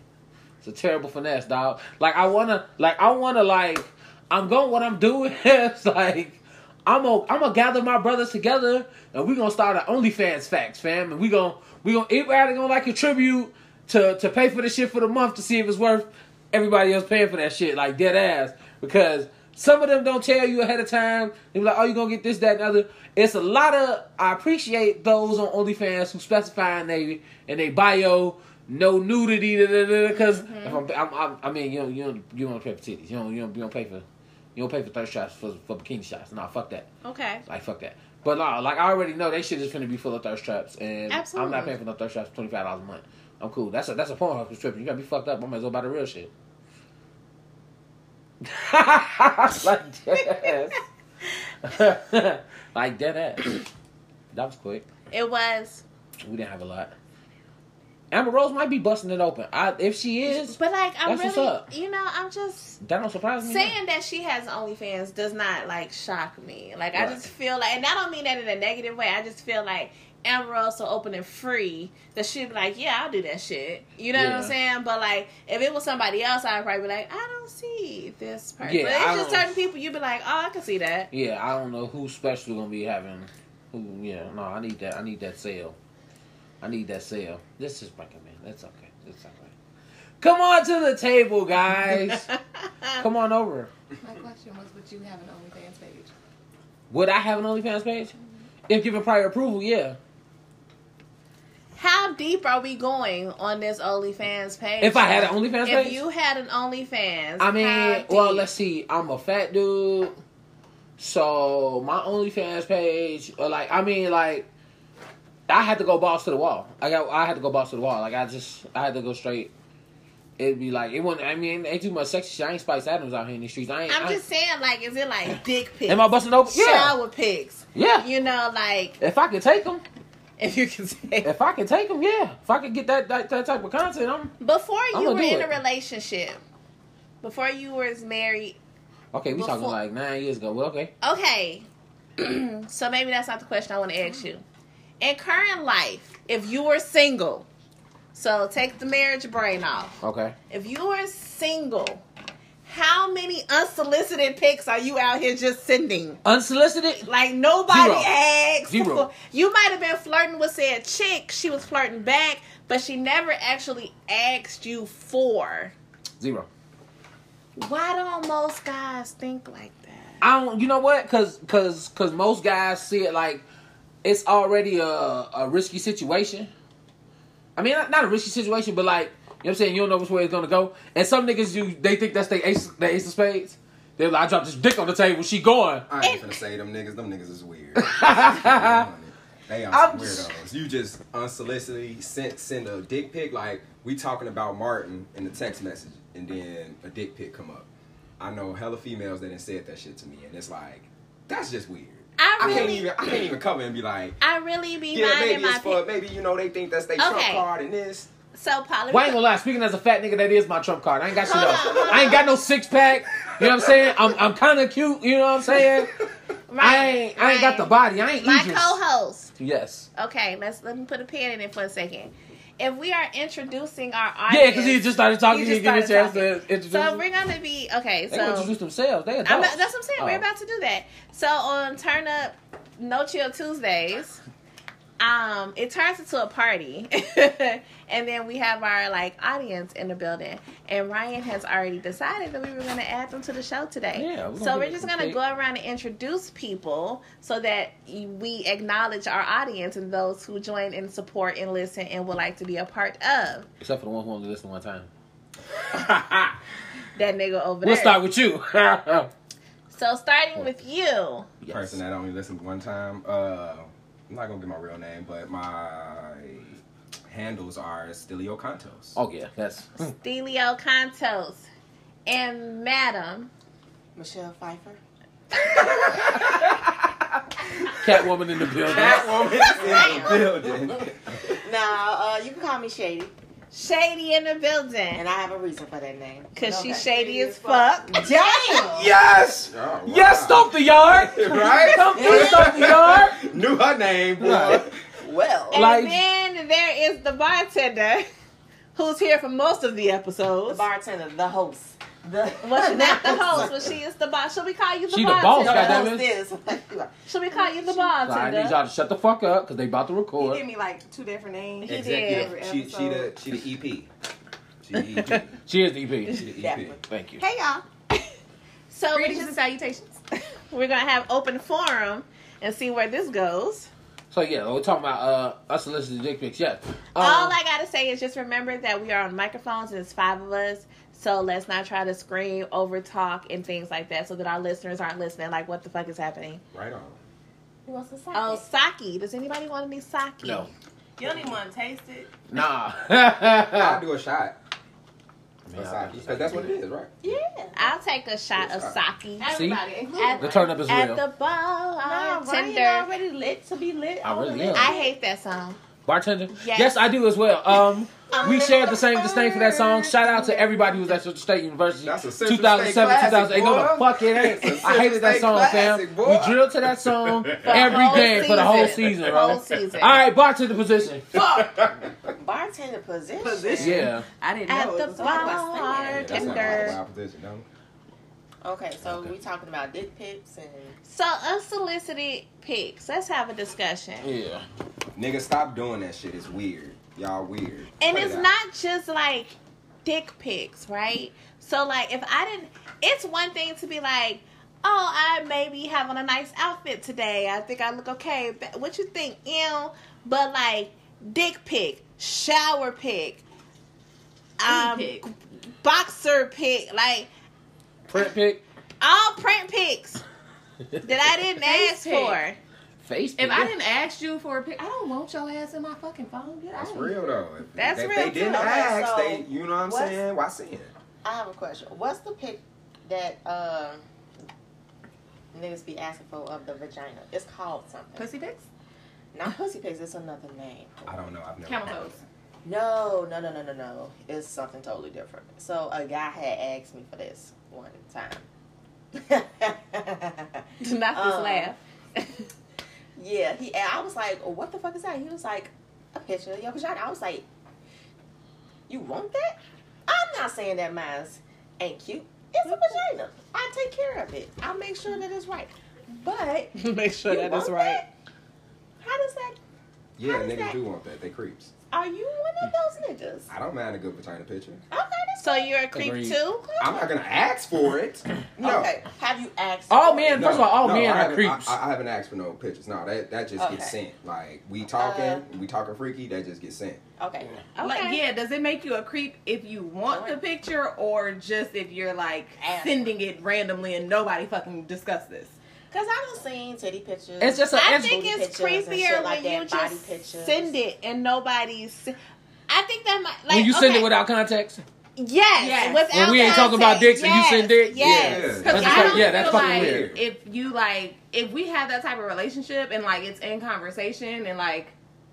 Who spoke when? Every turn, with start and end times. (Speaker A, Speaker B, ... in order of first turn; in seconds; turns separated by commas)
Speaker A: 0.6-34.0, Speaker B: 30.1-30.8, Speaker A: 34.5-36.9, Speaker B: 37.0-37.4, Speaker A: 37.5-46.3, Speaker B: 41.1-41.7, Speaker A: 48.4-50.8, Speaker A: 51.6-53.6, Speaker A: 54.3-54.9, Speaker B: 55.1-55.8, Speaker A: 56.2-56.9, Speaker A: 58.1-61.7, Speaker B: 60.2-62.8, Speaker A: 62.8-63.8, Speaker B: 63.4-81.1, Speaker A: 66.9-67.2, Speaker A: 74.1-74.5, Speaker A: 78.6-79.5, Speaker A: 81.1-85.8, Speaker A: 86.6-89.5, Speaker A: 90.2-92.3, Speaker B: 92.1-93.0, Speaker A: 93.0-93.7, Speaker C: 94.0-96.1, Speaker A: 96.9-98.1, Speaker A: 98.7-100.0, Speaker B: 101.8-108.5, Speaker A: 104.8-106.0, Speaker A: 107.4-110.2, Speaker A: 111.0-114.5, Speaker A: 115.5-119.5, Speaker A: 120.4-124.2, Speaker B: 123.9-129.0, Speaker A: 125.9-127.0, Speaker A: 127.7-128.1, Speaker A: 129.0-129.8, Speaker B: 130.4-131.3, Speaker A: 131.2-134.3, Speaker B: 134.4-136.4, Speaker A: 134.9-135.5, Speaker B: 137.2-138.6, Speaker A: 139.1-140.9, Speaker B: 139.3-139.8, Speaker B: 141.0-141.7, Speaker B: 142.2-144.4, Speaker B: 145.0-147.4, Speaker B: 148.1-150.0, Speaker A: 150.0-150.3, Speaker B: 150.5-152.0, Speaker B: 152.6-156.2, Speaker A: 156.2-157.1, Speaker B: 157.0-165.7, Speaker A: 157.7-158.1, Speaker A: 158.7-159.1, Speaker A: 166.2-166.5, Speaker B: 167.6-170.2, Speaker A: 170.2-173.4, Speaker A: 174.0-176.5, Speaker A: 177.6-185.8, Speaker D: 185.9-204.2, Speaker B: 186.0-186.4, Speaker A: 187.8-188.8, Speaker A: 189.7-190.3, Speaker B: 202.2-202.9, Speaker B: 204.2-205.8, Speaker D: 204.9-208.1, Speaker B: 207.0-207.4, Speaker B: 208.3-209.2, Speaker A: 208.9-215.9, Speaker E: 211.2-212.3, Speaker B: 211.3-212.1, Speaker B: 216.5-219.3, Speaker A: 216.6-218.8, Speaker A: 219.4-219.9, Speaker B: 219.9-228.5, Speaker A: 224.3-227.0, Speaker A: 228.1-230.2, Speaker B: 229.2-234.2, Speaker B: 235.0-253.5, Speaker A: 243.9-245.2, Speaker A: 253.6-254.9, Speaker A: 255.6-256.4, Speaker B: 256.9-258.0, Speaker A: 257.6-259.1, Speaker B: 259.7-261.3, Speaker A: 261.4-261.8, Speaker D: 261.5-269.0, Speaker A: 268.9-269.9, Speaker B: 269.8-271.4, Speaker B: 272.1-273.3, Speaker E: 273.9-274.8, Speaker D: 276.0-276.4, Speaker A: 277.8-279.2, Speaker D: 278.6-281.3, Speaker E: 278.7-280.6, Speaker E: 281.4-283.1, Speaker B: 283.5-285.0, Speaker E: 284.9-288.9, Speaker B: 286.3-288.1, Speaker C: 288.0-288.6, Speaker A: 288.7-293.2, Speaker D: 288.9-294.8, Speaker E: 291.9-292.6, Speaker A: 294.2-294.6, Speaker E: 295.0-295.6, Speaker B: 295.5-298.1, Speaker A: 295.5-296.0, Speaker B: 298.7-300.6, Speaker E: 300.5-303.6, Speaker B: 302.4-305.9, Speaker A: 304.9-306.1, Speaker E: 305.4-307.9, Speaker B: 307.1-308.6, Speaker A: 308.0-310.4, Speaker C: 310.2-313.1, Speaker B: 311.6-312.3, Speaker D: 311.7-313.9, Speaker D: 314.6-315.4, Speaker A: 315.5-316.2, Speaker D: 316.1-316.8, Speaker E: 316.3-316.8, Speaker A: 316.9-317.2, Speaker C: 317.2-317.6, Speaker B: 318.7-319.7, Speaker C: 318.9-319.8, Speaker B: 320.5-323.7, Speaker A: 324.1-327.4, Speaker B: 326.9-336.4, Speaker D: 336.5-337.0, Speaker E: 337.6-338.4, Speaker B: 338.1-340.5, Speaker A: 340.2-340.5, Speaker C: 341.0-342.1, Speaker A: 342.3-343.8, Speaker D: 343.5-344.4, Speaker A: 345.5-346.6, Speaker D: 345.5-347.1, Speaker E: 347.0-347.7, Speaker B: 347.6-349.3, Speaker D: 348.4-348.8, Speaker C: 349.2-350.4, Speaker A: 349.3-349.6, Speaker B: 350.0-352.9, Speaker A: 350.2-351.0, Speaker E: 351.8-354.9, Speaker A: 354.0-354.7, Speaker B: 354.5-355.6, Speaker A: 355.8-371.2, Speaker B: 356.3-356.8, Speaker E: 358.1-360.0, Speaker D: 361.8-369.4, Speaker B: 367.4-370.0, Speaker D: 371.1-371.9, Speaker C: 371.1-371.5, Speaker E: 372.2-373.9, Speaker C: 373.2-375.7, Speaker A: 373.6-374.1, Speaker B: 374.5-376.8, Speaker E: 374.9-376.8, Speaker D: 375.9-377.4, Speaker E: 378.4-380.8, Speaker B: 380.9-384.1, Speaker A: 384.0-384.4, Speaker D: 384.9-388.3, Speaker B: 387.8-403.2, Speaker B: 404.4-407.1, Speaker C: 404.4-405.0, Speaker A: 407.9-408.4, Speaker B: 408.8-410.0, Speaker B: 410.8-412.4, Speaker C: 411.4-412.2, Speaker A: 412.8-413.5, Speaker C: 413.2-416.9, Speaker D: 416.5-420.7, Speaker B: 417.6-418.6, Speaker E: 418.1-420.0, Speaker E: 421.0-423.8, Speaker E: 425.3-428.1, Speaker C: 427.9-428.5, Speaker E: 429.1-430.9, Speaker D: 430.9-432.0, Speaker C: 431.4-432.0, Speaker E: 432.4-438.3, Speaker E: 438.9-440.4, Speaker B: 440.6-442.2, Speaker E: 440.9-441.6, Speaker E: 442.9-447.2, Speaker E: 448.7-457.9, Speaker B: 456.5-457.8, Speaker E: 458.8-459.4, Speaker D: 460.0-461.5, Speaker E: 460.0-460.6, Speaker E: 461.7-463.3, Speaker D: 463.3-464.6, Speaker E: 464.7-465.5, Speaker B: 465.2-466.6, Speaker A: 465.7-466.2, Speaker D: 466.6-468.8, Speaker E: 466.6-466.9, Speaker E: 468.4-470.4, Speaker A: 469.7-471.6, Speaker D: 470.1-476.8, Speaker E: 473.4-473.8, Speaker E: 474.7-475.2, Speaker E: 477.0-477.4, Speaker B: 477.5-478.0, Speaker C: 477.6-485.3, Speaker E: 479.9-480.2, Speaker E: 482.4-482.9, Speaker E: 485.7-490.5, Speaker A: 487.2-488.1, Speaker B: 487.5-491.9, Speaker B: 492.5-493.9, Speaker A: 493.3-494.6, Speaker B: 495.0-499.1, Speaker C: 495.4-496.5, Speaker A: 495.9-499.9, Speaker D: 497.8-500.0, Speaker C: 498.4-504.7